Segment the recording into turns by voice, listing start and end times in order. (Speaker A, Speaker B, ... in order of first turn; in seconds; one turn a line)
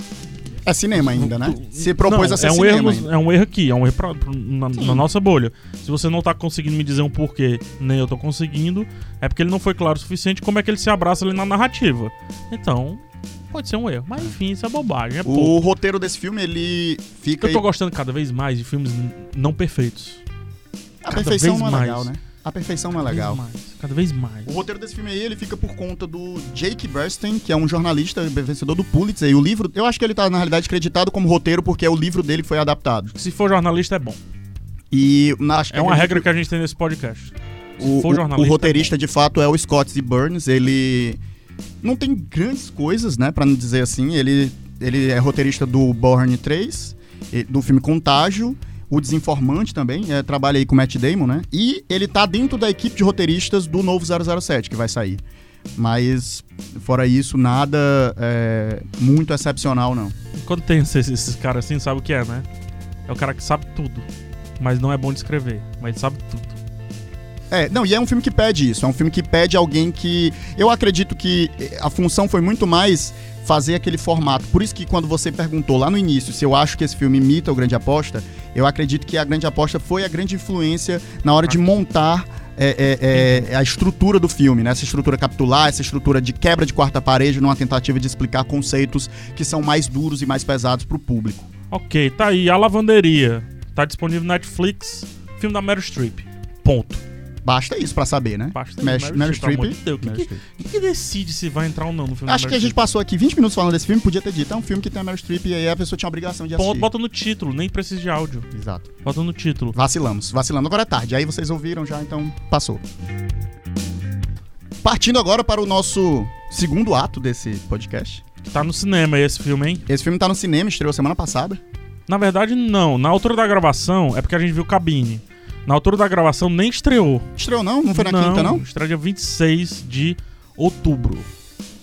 Speaker A: 0.7-3.1
Speaker B: 0.9-15.6
Speaker A: 4.8-5.0
Speaker A: 15.2-17.6
Speaker B: 17.4-20.2
Speaker A: 21.0-23.4
Speaker B: 21.1-22.1
Speaker B: 23.0-24.6
Speaker A: 24.5-33.1
Speaker B: 33.1-34.2
Speaker A: 34.9-36.3
Speaker B: 35.7-38.9
Speaker A: 37.8-41.2
Speaker A: 41.8-55.2
Speaker A: 55.8-60.1
Speaker B: 60.4-62.5
Speaker B: 63.1-64.1
Speaker B: 64.6-66.6
Speaker A: 67.5-91.5
Speaker B: 83.1-83.5
Speaker B: 91.7-97.0
Speaker A: 97.5-100.4
Speaker B: 98.5-102.8
Speaker A: 102.3-106.9
Speaker B: 106.6-108.5
Speaker A: 108.5-108.9
Speaker B: 109.0-109.8
Speaker A: 109.7-112.8
Speaker A: 114.8-118.2
Speaker B: 118.4-119.8
Speaker A: 119.9-121.6
Speaker B: 122.1-127.3
Speaker A: 127.4-128.6
Speaker B: 127.9-131.3